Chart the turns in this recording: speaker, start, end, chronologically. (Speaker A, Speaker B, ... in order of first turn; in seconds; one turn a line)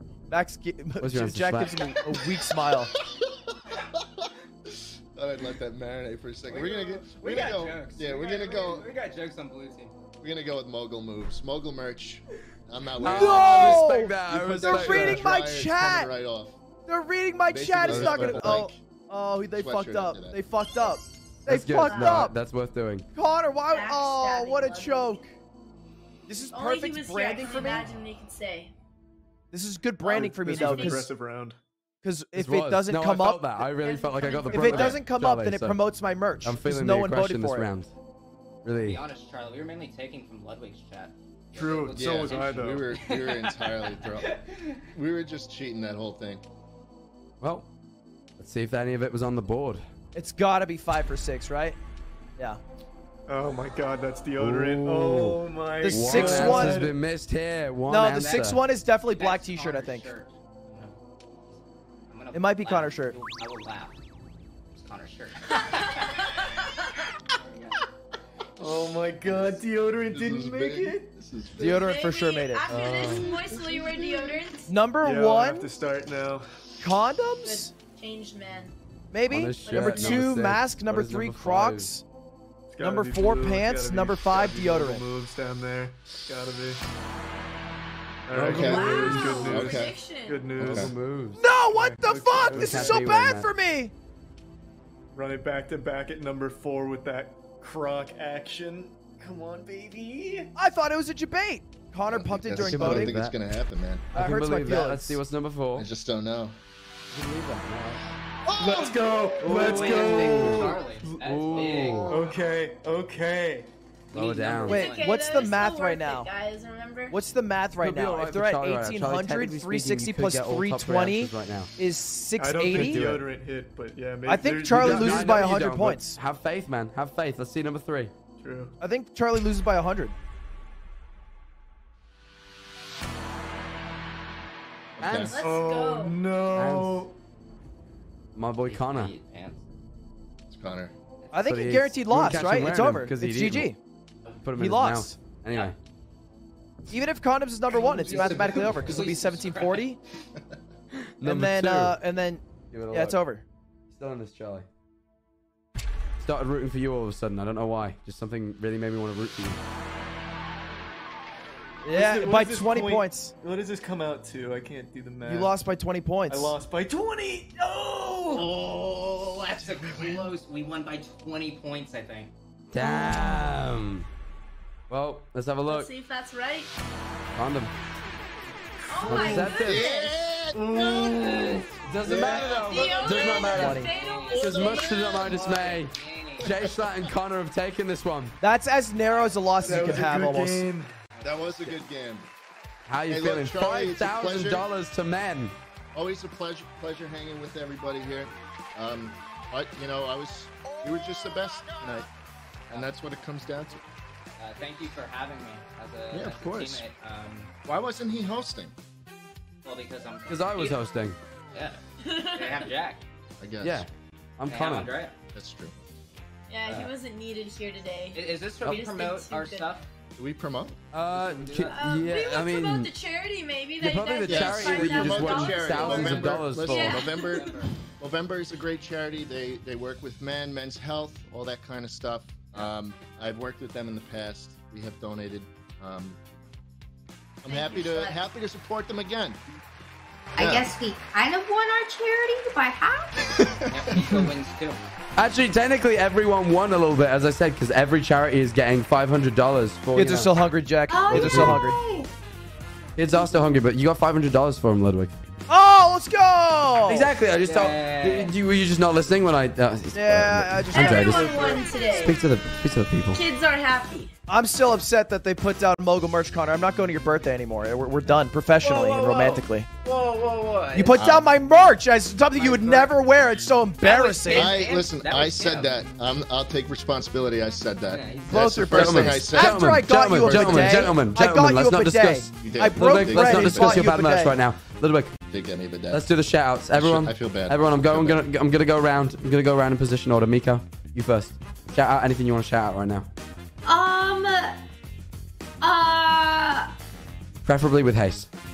Speaker A: 0.3-2.9
Speaker B: 1.0-1.8
Speaker C: 2.1-8.9
Speaker D: 6.5-9.9
Speaker C: 10.2-16.6
Speaker A: 13.0-16.1
Speaker B: 13.0-15.3
Speaker A: 16.9-22.3
Speaker C: 17.5-18.8
Speaker B: 17.9-18.6
Speaker C: 19.5-20.4
Speaker B: 21.5-23.1
Speaker E: 21.8-22.2
Speaker A: 23.1-25.3
Speaker E: 23.7-25.2
Speaker A: 26.3-27.9
Speaker E: 26.5-28.7
Speaker A: 29.5-31.1
Speaker F: 30.1-31.6
Speaker E: 30.1-31.0
Speaker A: 32.0-33.5
Speaker B: 32.3-35.8
Speaker E: 33.8-35.0
Speaker A: 34.5-37.7
Speaker B: 36.4-37.9
Speaker B: 38.6-39.0
Speaker D: 38.8-44.8
Speaker F: 41.5-42.9
Speaker C: 41.9-44.4
Speaker C: 44.9-46.4
Speaker B: 47.4-47.7
Speaker B: 48.4-49.8
Speaker A: 50.1-51.8
Speaker F: 53.3-57.0
Speaker B: 54.4-58.6
Speaker A: 55.8-56.9
Speaker A: 57.9-60.1
Speaker D: 58.1-61.0
Speaker D: 61.5-64.0
Speaker A: 62.3-63.2
Speaker D: 64.7-66.3
Speaker E: 65.5-66.9
Speaker D: 67.5-67.8
Speaker F: 68.6-71.1
Speaker C: 68.6-72.1
Speaker A: 71.6-73.3
Speaker E: 71.7-74.7
Speaker B: 72.7-73.3
Speaker C: 73.6-74.2
Speaker A: 74.7-75.7
Speaker F: 75.0-76.6
Speaker A: 76.8-77.7
Speaker E: 77.4-78.7
Speaker A: 79.1-82.0
Speaker B: 79.3-81.9
Speaker E: 79.6-80.3
Speaker F: 82.7-86.8
Speaker A: 82.8-85.0
Speaker F: 88.3-91.0
Speaker B: 88.3-89.7
Speaker C: 88.5-90.0
Speaker E: 88.5-90.5
Speaker B: 90.6-91.4
Speaker C: 90.6-90.9
Speaker A: 91.3-93.9
Speaker F: 91.7-93.1
Speaker B: 92.4-93.5
Speaker F: 95.1-100.5
Speaker A: 100.5-103.1
Speaker C: 102.0-104.1
Speaker B: 102.6-103.4
Speaker A: 104.1-105.2
Speaker B: 104.1-105.9
Speaker C: 105.7-106.5
Speaker B: 107.1-108.0
Speaker C: 108.4-109.0
Speaker F: 108.5-113.7
Speaker B: 109.4-112.2
Speaker D: 109.4-112.5
Speaker B: 114.1-114.9
Speaker D: 114.1-115.2
Speaker A: 114.7-116.3
Speaker E: 114.7-117.2
Speaker A: 117.1-123.1
Speaker B: 117.8-121.7
Speaker F: 122.4-125.6
Speaker B: 122.7-123.2
Speaker A: 124.2-126.2
Speaker B: 124.7-128.1
Speaker F: 128.4-128.7
Speaker A: 128.8-130.1
Speaker C: 135.0-135.4
Speaker B: 135.0-135.4
Speaker E: 135.3-136.2
Speaker F: 135.4-137.1
Speaker B: 136.5-137.1
Speaker B: 138.3-139.1
Speaker D: 138.6-139.6
Speaker C: 140.5-140.9
Speaker A: 141.3-143.8
Speaker B: 141.4-143.7
Speaker B: 144.4-145.8
Speaker A: 144.6-145.2
Speaker A: 146.9-150.0
Speaker D: 147.7-149.9
Speaker C: 147.7-148.9
Speaker B: 151.2-152.0
Speaker A: 151.2-153.4
Speaker B: 152.7-153.2
Speaker B: 153.9-154.7
Speaker B: 156.2-159.6
Speaker A: 161.8-163.3
Speaker F: 161.9-165.5
Speaker A: 165.2-166.5
Speaker F: 166.3-168.5
Speaker C: 168.5-170.3
Speaker D: 169.5-172.3
Speaker B: 172.7-174.1
Speaker B: 174.9-175.9
Speaker E: 175.7-176.7
Speaker B: 177.3-177.8
Speaker E: 178.9-180.1
Speaker C: 179.0-182.6
Speaker B: 179.0-179.9
Speaker F: 180.5-181.7
Speaker D: 181.0-186.5
Speaker B: 181.8-188.4
Speaker E: 182.6-185.4
Speaker A: 183.4-183.9
Speaker C: 186.4-187.1
Speaker A: 188.4-190.6
Speaker D: 189.0-189.8
Speaker F: 189.6-190.9
Speaker D: 191.1-191.8
Speaker C: 191.2-192.3
Speaker B: 192.8-195.5
Speaker C: 193.1-194.7
Speaker C: 195.9-202.1
Speaker C: 202.7-203.8
Speaker D: 204.4-207.5
Speaker C: 206.1-206.8
Speaker B: 206.2-206.8
Speaker C: 207.6-208.7
Speaker D: 209.6-210.8
Speaker B: 210.3-211.2
Speaker D: 211.5-211.8
Speaker E: 212.0-212.7
Speaker D: 212.3-213.0
Speaker C: 213.4-213.9
Speaker B: 213.6-214.9
Speaker D: 214.5-215.1
Speaker C: 215.3-215.7
Speaker E: 216.5-219.7
Speaker D: 218.1-219.9
Speaker C: 220.2-220.8
Speaker B: 220.9-222.9
Speaker D: 221.1-221.8
Speaker E: 221.7-227.5
Speaker B: 223.8-227.1
Speaker C: 224.2-236.2
Speaker D: 227.1-227.7
Speaker C: 237.4-239.4
Speaker E: 237.5-238.2
Speaker G: 240.3-243.2
Speaker C: 240.4-240.7
Speaker C: 243.3-244.3
Speaker D: 243.7-244.9
Speaker B: 245.2-250.3
Speaker A: 249.9-251.8
Speaker G: 250.9-252.1
Speaker B: 251.1-251.6
Speaker B: 253.0-255.1
Speaker A: 255.5-257.1
Speaker B: 256.8-263.2
Speaker D: 257.4-258.3
Speaker A: 259.9-261.6
Speaker E: 260.7-262.2
Speaker E: 263.1-264.1
Speaker A: 264.3-269.7
Speaker D: 268.6-271.0
Speaker A: 270.7-274.6
Speaker C: 270.9-271.3
Speaker F: 272.4-272.9
Speaker D: 273.8-275.9
Speaker C: 274.3-280.9
Speaker D: 277.9-278.6
Speaker A: 278.3-284.3
Speaker B: 278.7-285.1
Speaker C: 282.4-283.9
Speaker C: 285.3-286.1
Speaker B: 285.9-293.1
Speaker C: 286.7-288.2
Speaker G: 293.6-294.6
Speaker G: 295.6-296.7
Speaker B: 297.4-298.3